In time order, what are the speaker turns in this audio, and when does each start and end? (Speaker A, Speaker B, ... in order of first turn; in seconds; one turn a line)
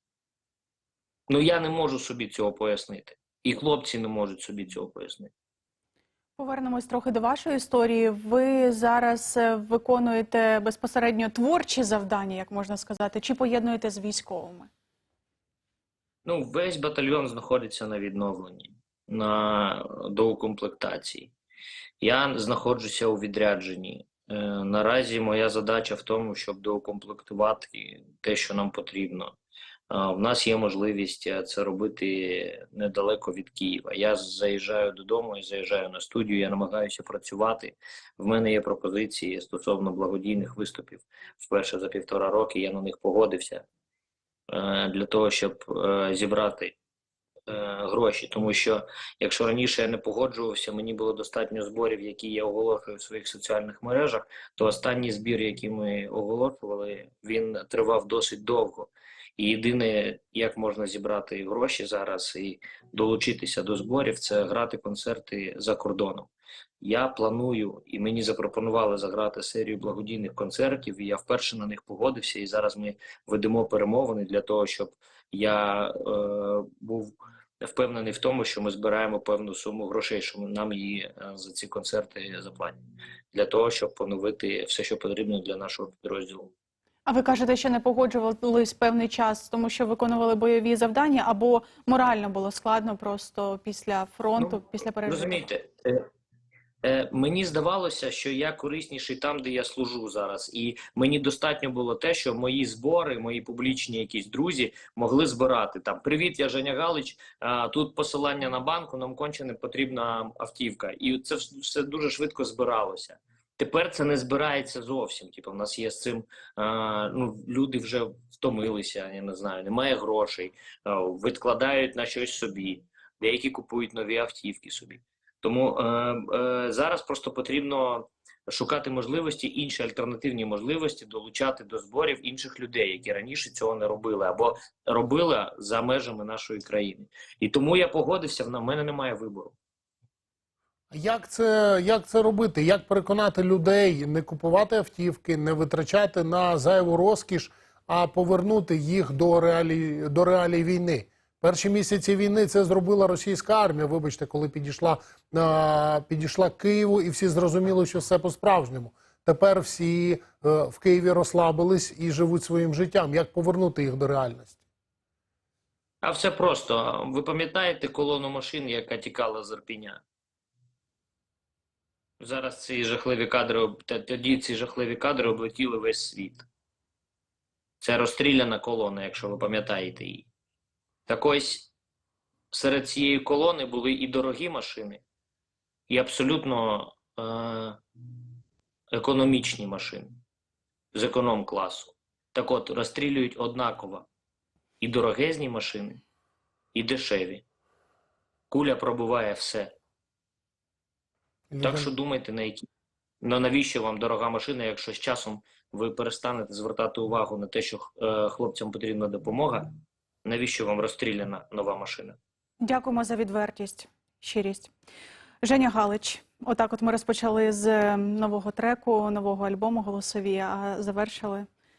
Speaker A: 1.3-5.3
Speaker B: 6.4-14.7
Speaker A: 16.2-21.3
Speaker A: 22.0-29.4
Speaker A: 29.9-43.6
Speaker A: 44.5-46.8
Speaker A: 47.5-66.3
Speaker A: 66.8-82.8
Speaker A: 83.3-86.5
Speaker B: 87.1-95.5
Speaker A: 94.4-96.1
Speaker A: 96.8-139.6
Speaker C: 140.9-164.6
Speaker A: 166.0-170.0
Speaker A: 172.2-176.5
Speaker A: 177.8-180.3
Speaker A: 181.1-181.7
Speaker A: 182.5-185.0
Speaker A: 185.9-187.8
Speaker A: 188.9-190.2
Speaker A: 190.9-194.1
Speaker A: 194.8-196.0
Speaker A: 196.7-197.4
Speaker A: 198.5-199.7
Speaker C: 201.5-201.9
Speaker A: 201.6-202.7
Speaker A: 203.2-209.7
Speaker A: 210.2-212.2
Speaker B: 212.6-214.7
Speaker B: 215.4-221.5